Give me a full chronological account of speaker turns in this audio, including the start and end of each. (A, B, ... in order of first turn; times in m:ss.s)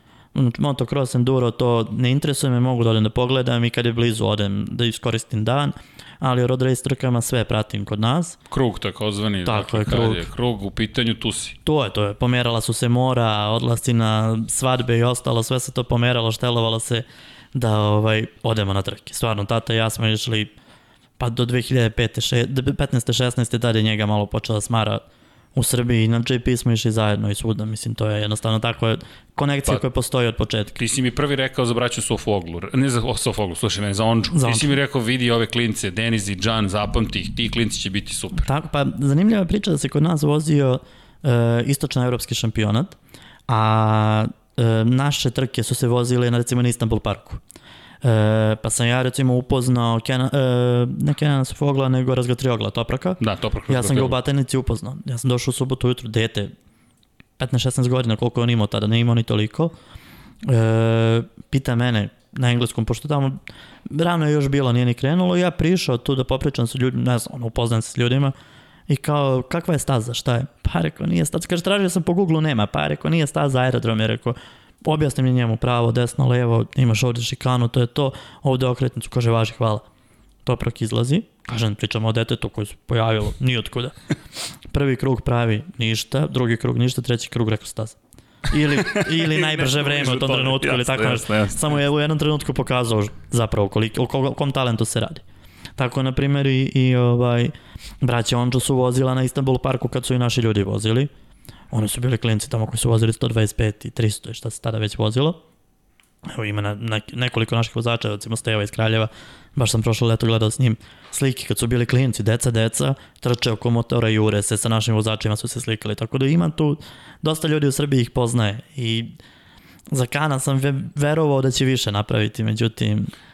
0:00.3-0:08.4 A
0:08.5-0:11.6 B
0:09.4-0:10.3 A
0:11.6-0:20.5 A
0:21.2-0:25.0 A
0:25.5-0:30.8 A
0:30.8-0:38.5 B
0:34.3-0:34.8 A
0:38.3-0:43.0 A
0:43.5-0:47.4 A
0:48.0-0:56.5 A
0:53.2-0:54.2 B
0:57.4-0:59.7 A
1:00.4-1:08.3 A
1:08.9-1:19.8 A
1:20.4-1:23.9 A
1:24.7-1:28.0 A
1:28.5-1:35.2 A
1:28.8-1:31.7 B
1:35.8-1:41.1 A
1:41.7-1:45.4 A
1:46.3-1:59.1 A
1:59.9-2:03.1 A